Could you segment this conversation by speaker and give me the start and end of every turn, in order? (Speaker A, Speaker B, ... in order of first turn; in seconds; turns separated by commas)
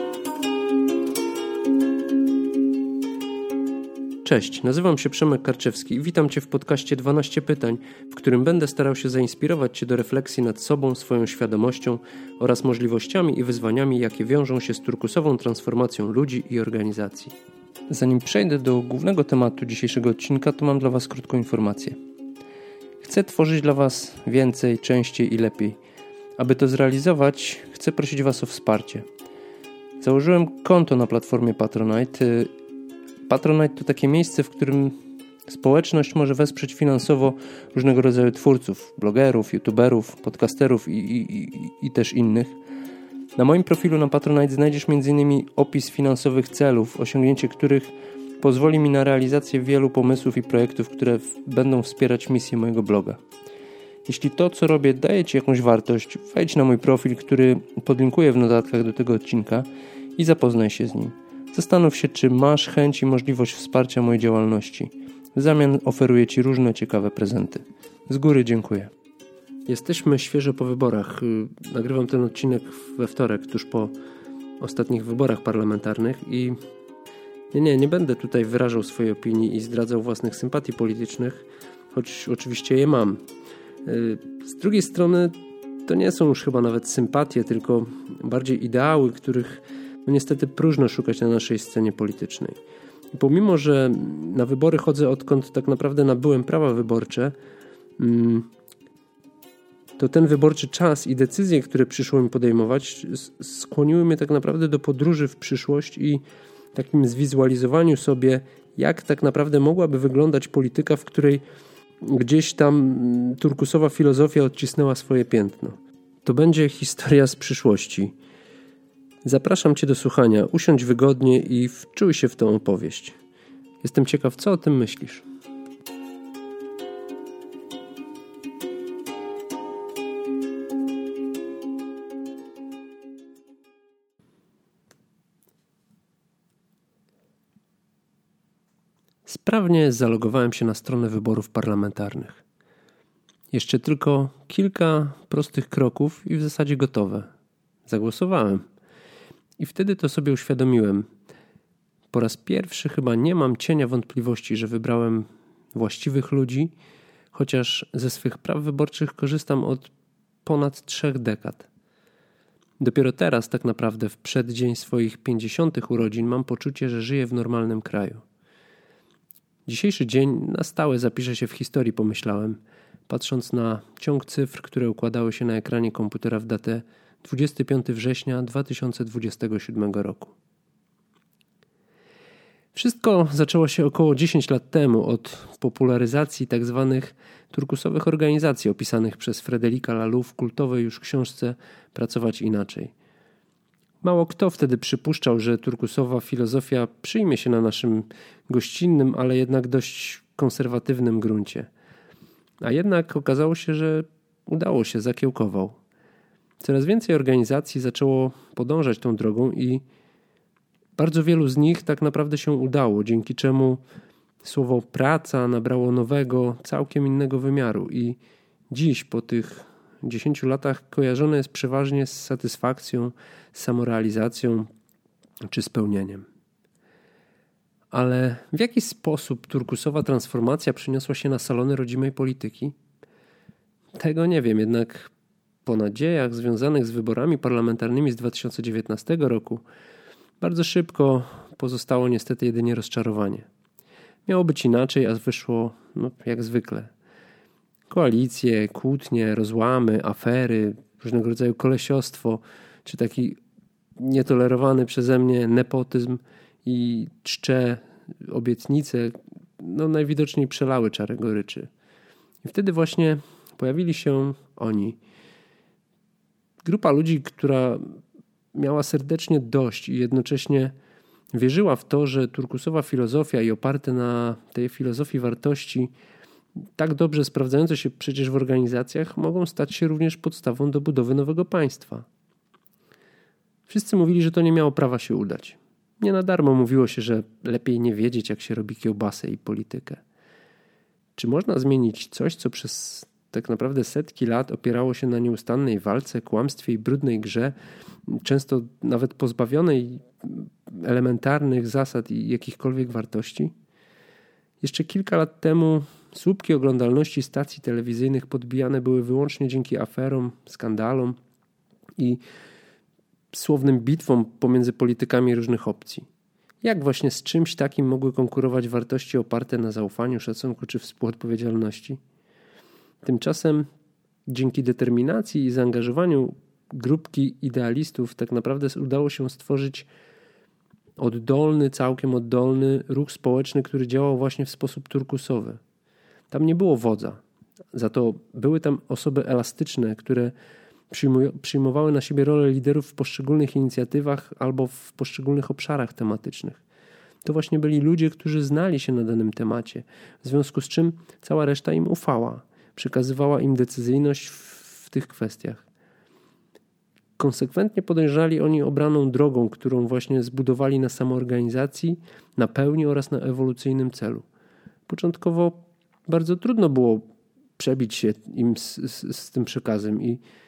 Speaker A: 4.2-17.4, Speaker A: 17.9-22.0, Speaker A: 23.0-25.8, Speaker A: 26.4-29.1, Speaker A: 30.0-32.5, Speaker A: 33.3-35.0, Speaker A: 35.5-42.6, Speaker A: 43.4-53.2, Speaker A: 54.1-68.9, Speaker A: 69.7-73.9, Speaker A: 74.6-76.6, Speaker A: 77.5-83.2, Speaker A: 83.8-92.6, Speaker A: 93.1-97.3, Speaker A: 98.0-98.5, Speaker A: 100.0-106.2, Speaker A: 106.7-111.4, Speaker A: 112.0-118.1, Speaker A: 119.2-123.2, Speaker A: 123.8-125.2, Speaker A: 139.3-142.4, Speaker A: 143.5-147.3, Speaker A: 147.9-148.6, Speaker A: 149.6-151.1, Speaker A: 152.1-156.7, Speaker A: 157.3-159.9, Speaker A: 160.4-161.7, Speaker A: 162.8-168.2, Speaker A: 169.7-180.3, Speaker A: 182.7-192.9, Speaker A: 194.0-201.7, Speaker A: 202.6-205.8, Speaker A: 206.6-209.8, Speaker A: 211.0-213.8, Speaker A: 214.4-218.2, Speaker A: 218.7-224.7, Speaker A: 225.5-226.2, Speaker A: 227.9-232.8, Speaker A: 234.0-235.1, Speaker A: 235.7-239.6, Speaker A: 240.4-243.5, Speaker A: 244.3-246.9, Speaker A: 247.9-253.4, Speaker A: 254.0-261.7, Speaker A: 262.4-265.0, Speaker A: 266.6-268.0, Speaker A: 268.5-270.8, Speaker A: 271.3-275.9, Speaker A: 276.8-282.1, Speaker A: 283.7-290.0, Speaker A: 291.2-297.6, Speaker A: 298.1-303.5, Speaker A: 304.6-311.2, Speaker A: 313.3-316.1, Speaker A: 316.6-322.0, Speaker A: 323.0-323.7, Speaker A: 324.3-329.9, Speaker A: 331.0-335.6, Speaker A: 336.3-337.2, Speaker A: 337.7-340.3, Speaker A: 340.9-346.6, Speaker A: 347.2-355.6, Speaker A: 357.2-364.2, Speaker A: 364.9-367.1, Speaker A: 367.6-370.2